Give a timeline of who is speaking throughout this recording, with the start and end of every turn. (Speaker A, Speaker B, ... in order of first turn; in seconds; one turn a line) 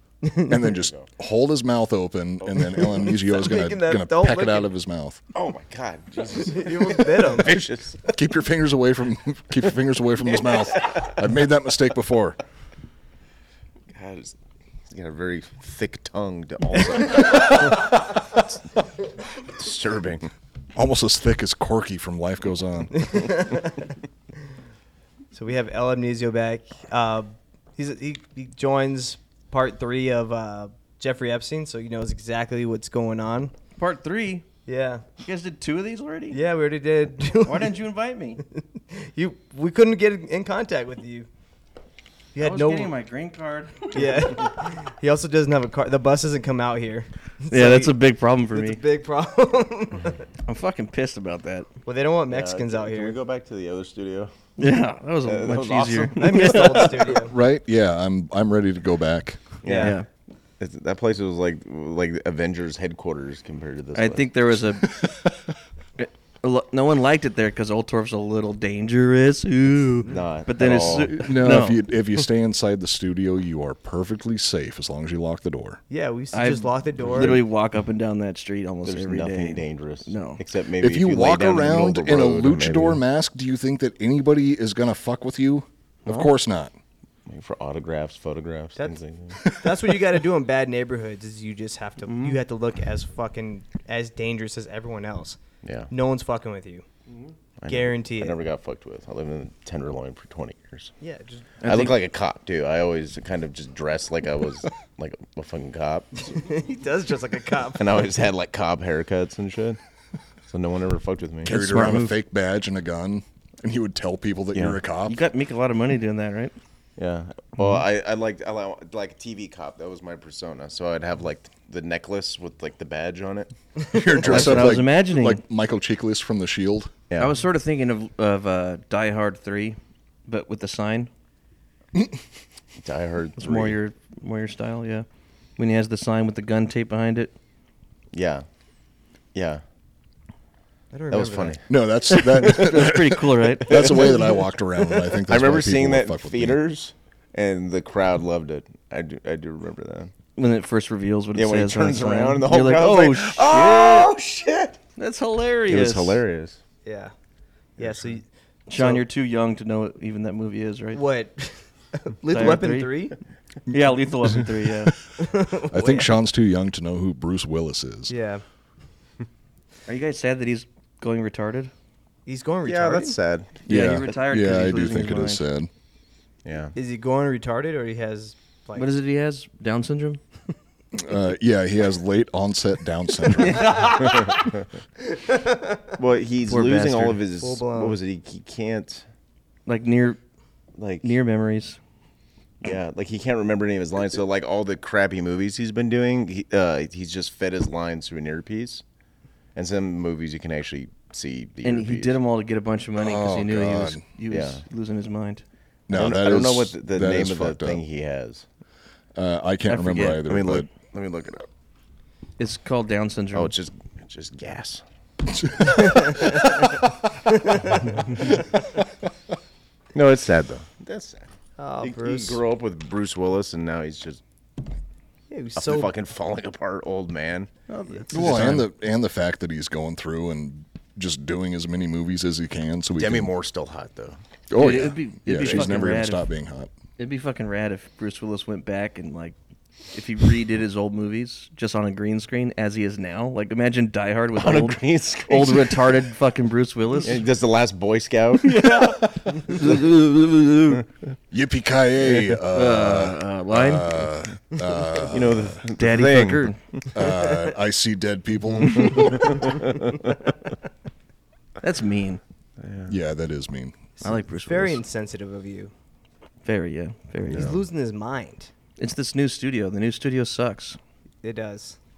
Speaker A: 0.2-0.6
Speaker B: 0.5-5.2
Speaker C: 0.7-1.1
Speaker C: 2.4-2.8
Speaker A: 2.8-4.7
Speaker C: 5.3-8.0
Speaker A: 6.4-7.6
Speaker B: 8.1-12.4
Speaker C: 10.3-11.2
Speaker C: 13.9-14.4
Speaker C: 14.9-18.4
Speaker C: 19.4-20.3
Speaker B: 20.8-23.4
Speaker A: 22.9-23.7
Speaker A: 25.3-33.5
Speaker D: 33.8-34.5
Speaker A: 34.7-35.1
Speaker D: 35.2-36.4
Speaker A: 36.3-37.7
Speaker D: 37.4-38.4
Speaker A: 38.8-41.3
Speaker A: 42.3-42.9
Speaker D: 42.4-44.5
Speaker A: 43.9-48.0
Speaker D: 47.5-48.8
Speaker A: 48.5-50.3
Speaker D: 50.5-51.7
Speaker A: 51.9-53.2
Speaker C: 52.3-54.3
Speaker D: 54.6-57.0
Speaker C: 55.2-56.9
Speaker A: 56.2-57.4
Speaker B: 57.2-59.5
Speaker C: 59.6-60.0
Speaker A: 59.6-60.0
Speaker D: 59.7-60.1
Speaker C: 60.6-64.3
Speaker D: 64.0-64.9
Speaker B: 65.0-65.3
Speaker D: 66.0-71.9
Speaker C: 70.1-71.3
Speaker B: 71.1-75.8
Speaker A: 75.9-77.4
Speaker D: 76.3-80.4
Speaker C: 78.8-83.0
Speaker B: 80.8-86.7
Speaker C: 87.3-89.4
Speaker A: 88.8-95.4
Speaker B: 89.5-89.8
Speaker D: 92.1-92.4
Speaker C: 95.6-95.9
Speaker A: 95.9-96.8
Speaker C: 97.6-100.9
Speaker A: 97.7-98.4
Speaker A: 101.0-101.5
Speaker D: 101.6-102.0
Speaker C: 101.6-106.3
Speaker A: 106.2-108.1
Speaker C: 107.8-109.8
Speaker C: 110.5-111.5
Speaker D: 111.5-112.2
Speaker B: 111.5-115.2
Speaker D: 115.1-116.5
Speaker C: 117.0-124.8
Speaker B: 123.9-126.9
Speaker D: 124.2-125.4
Speaker D: 127.2-131.1
Speaker C: 132.8-133.8
Speaker D: 133.4-135.1
Speaker D: 135.6-137.3
Speaker C: 138.1-138.4
Speaker C: 139.3-139.6
Speaker A: 140.9-141.6
Speaker C: 141.1-141.7
Speaker B: 141.7-146.6
Speaker D: 142.1-144.2
Speaker C: 143.7-144.1
Speaker C: 145.3-150.1
Speaker D: 150.4-154.1
Speaker C: 151.3-154.8
Speaker D: 155.0-156.2
Speaker C: 155.7-156.6
Speaker A: 156.8-157.1
Speaker A: 157.8-159.1
Speaker C: 157.8-158.1
Speaker D: 158.7-161.0
Speaker A: 160.9-163.2
Speaker D: 162.3-162.9
Speaker B: 163.7-164.9
Speaker D: 163.7-165.0
Speaker A: 165.2-166.1
Speaker B: 165.7-168.1
Speaker A: 168.1-168.4
Speaker D: 169.9-171.7
Speaker A: 172.3-173.2
Speaker C: 172.7-173.6
Speaker D: 173.7-175.4
Speaker B: 173.7-175.7
Speaker C: 176.4-176.7
Speaker A: 176.8-178.9
Speaker D: 178.8-180.2
Speaker B: 180.9-183.8
Speaker D: 183.3-184.4
Speaker C: 183.9-184.7
Speaker A: 185.1-185.8
Speaker C: 186.0-189.1
Speaker D: 186.5-187.2
Speaker A: 187.4-188.0
Speaker D: 189.7-190.2
Speaker C: 190.8-191.1
Speaker D: 191.0-191.8
Speaker C: 192.6-198.8
Speaker C: 199.6-202.2
Speaker D: 201.6-205.4
Speaker B: 203.0-204.0
Speaker C: 204.3-204.6
Speaker B: 205.9-207.8
Speaker C: 205.9-208.5
Speaker B: 209.2-210.7
Speaker D: 209.7-210.2
Speaker C: 210.2-211.5
Speaker D: 212.4-213.5
Speaker C: 213.3-214.8
Speaker B: 215.3-216.9
Speaker A: 215.7-216.5
Speaker A: 217.3-217.8
Speaker C: 219.9-221.3
Speaker A: 221.6-222.4
Speaker C: 221.8-224.2
Speaker A: 225.3-225.9
Speaker C: 225.6-227.5
Speaker D: 227.7-228.7
Speaker B: 228.1-233.3
Speaker C: 233.0-234.2
Speaker B: 234.5-236.7
Speaker D: 234.6-236.2
Speaker D: 237.0-239.4
Speaker D: 239.9-247.3
Speaker C: 244.4-245.9
Speaker C: 247.0-248.6
Speaker D: 248.4-250.8
Speaker B: 251.3-255.6
Speaker D: 252.4-254.1
Speaker C: 255.1-256.5
Speaker D: 255.8-256.6
Speaker B: 256.9-259.4
Speaker C: 258.9-259.7
Speaker D: 261.6-262.2
Speaker C: 262.6-262.9
Speaker B: 262.9-263.8
Speaker A: 264.0-265.7
Speaker D: 264.0-264.8
Speaker D: 266.4-267.6
Speaker A: 267.3-268.5
Speaker D: 268.8-270.8
Speaker A: 271.2-271.8